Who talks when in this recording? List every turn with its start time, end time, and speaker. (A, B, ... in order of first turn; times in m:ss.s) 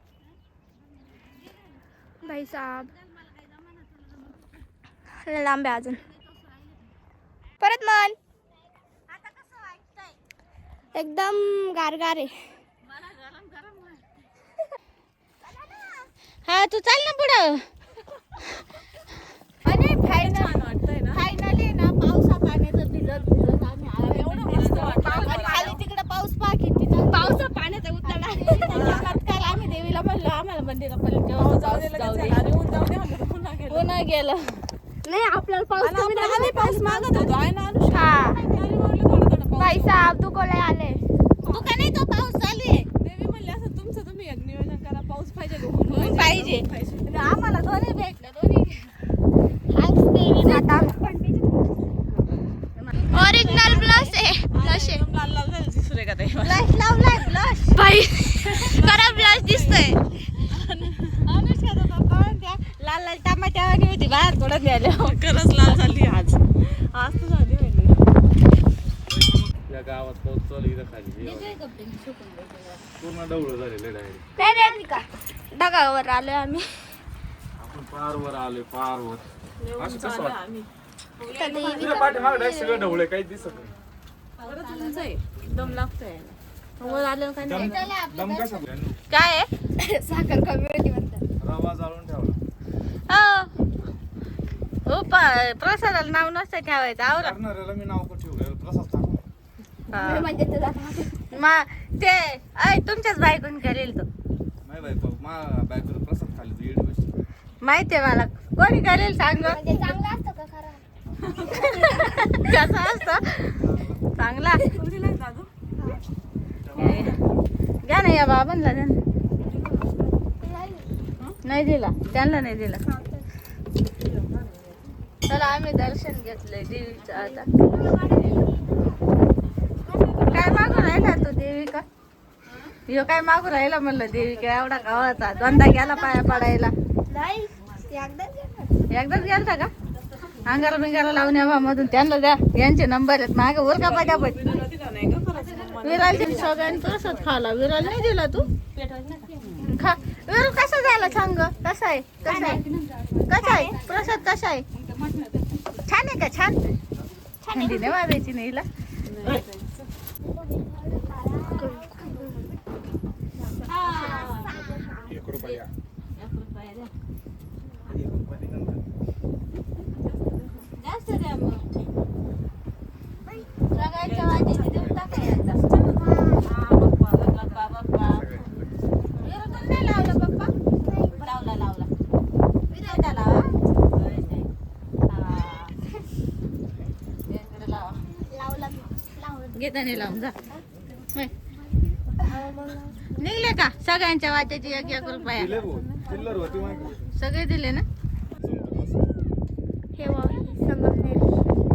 0:02.2-0:02.9 A
0:02.5-0:04.0 B
0:05.2-0:06.0 A
0:07.6-0:08.2 A
0:09.1-0:10.1 B
0:10.9-0:12.3 A
0:12.8-0:14.0 B
0:16.4-0:17.6 B
0:19.6-0:20.5 B
0:20.0-0:21.2 C
0:21.1-0:32.4 B
0:24.0-0:25.8 C
0:27.1-0:27.4 A
0:28.0-0:29.0 A
0:28.7-0:29.1 C
0:31.4-0:33.9 C
0:33.7-0:34.6 B
0:35.0-0:37.3 A
0:35.8-0:40.0 C
0:37.9-0:38.4 A
0:39.6-0:41.0 A
0:41.5-0:42.9 B
0:43.0-0:47.1 C
0:45.8-0:48.9 B
0:49.7-0:51.1 A
0:50.4-0:50.9 B
0:51.1-0:52.4 C
0:52.8-0:54.1 B
0:53.1-0:55.0 A
0:54.5-0:56.7 C
0:56.4-0:57.8 B
0:57.7-1:00.0 A
0:58.4-1:00.0 C
1:00.5-1:01.1 C
1:01.2-1:05.2 B
1:05.0-1:08.1 C
1:09.1-1:11.6 D
1:11.2-1:12.9 B
1:13.0-1:14.2 D
1:14.4-1:16.6 A
1:17.6-1:19.2 D
1:19.6-1:20.7 C
1:19.8-1:20.4 D
1:21.2-1:22.3 C
1:21.3-1:22.3 A
1:21.7-1:23.7 D
1:24.4-1:25.0 B
1:24.4-1:27.0 C
1:26.8-1:29.5 B
1:27.4-1:29.0 D
1:29.8-1:31.2 A
1:31.4-1:32.4 D
1:33.1-1:33.5 B
1:34.8-1:37.3 B
1:37.2-1:39.2 D
1:39.9-1:40.3 B
1:39.9-1:41.2 A
1:41.3-1:44.0 B
1:44.6-1:47.2 D
1:47.6-1:49.9 B
1:49.4-1:50.8 A
1:51.3-1:51.9 C
1:51.5-1:53.6 B
1:51.7-1:52.0 A
1:53.6-1:54.0 D
1:54.2-1:54.7 B
1:54.6-1:55.5 C
1:56.7-1:57.2 D
1:56.8-1:57.2 B
1:57.8-1:59.0 B
1:59.4-1:59.9 C
2:00.4-2:00.9 A
2:01.4-2:02.8 B
2:02.9-2:03.2 A
2:03.8-2:04.8 C
2:05.3-2:07.4 B
2:07.6-2:08.8 A
2:10.1-2:10.9 C
2:10.3-2:11.8 B
2:10.3-2:10.7 A
2:12.9-2:16.7 B
2:14.2-2:15.6 C
2:15.4-2:16.4 A
2:17.1-2:18.7 A
2:18.9-2:19.7 B
2:19.9-2:20.6 C
2:20.4-2:24.6 B
2:23.6-2:27.3 C
2:25.4-2:28.5 B
2:26.0-2:26.4 A
2:28.4-2:29.6 C
2:29.3-2:36.6 B
2:32.2-2:32.6 A
2:32.3-2:32.6 C
2:33.3-2:33.9 A
2:37.4-2:38.0 A
2:37.5-2:38.6 B
2:39.0-2:39.9 C
2:40.3-2:42.5 A
2:43.6-2:44.7 B
2:43.8-2:45.2 A
2:43.9-2:44.5 C
2:45.0-2:45.7 D
2:45.3-2:45.6 B
2:46.2-2:46.9 B
2:47.8-2:48.8 D
2:49.9-2:50.7 C
2:50.8-2:51.6 B
2:53.7-2:55.6 B
2:53.8-2:54.9 C
2:55.5-2:57.7 C
2:57.4-2:58.2 B
2:58.1-2:58.7 D
2:59.2-3:00.5 B
2:59.4-3:00.2 C
3:00.8-3:01.2 A
3:01.1-3:01.9 B
3:02.7-3:03.3 A
3:02.7-3:04.5 B
3:05.1-3:05.7 B
3:07.3-3:07.9 B
3:08.3-3:09.6 A
3:09.5-3:10.3 B
3:12.2-3:12.9 A
3:13.2-3:15.6 B
3:14.7-3:16.9 C
3:15.3-3:17.1 D
3:17.1-3:17.8 B
3:18.4-3:19.1 D
3:20.0-3:21.3 A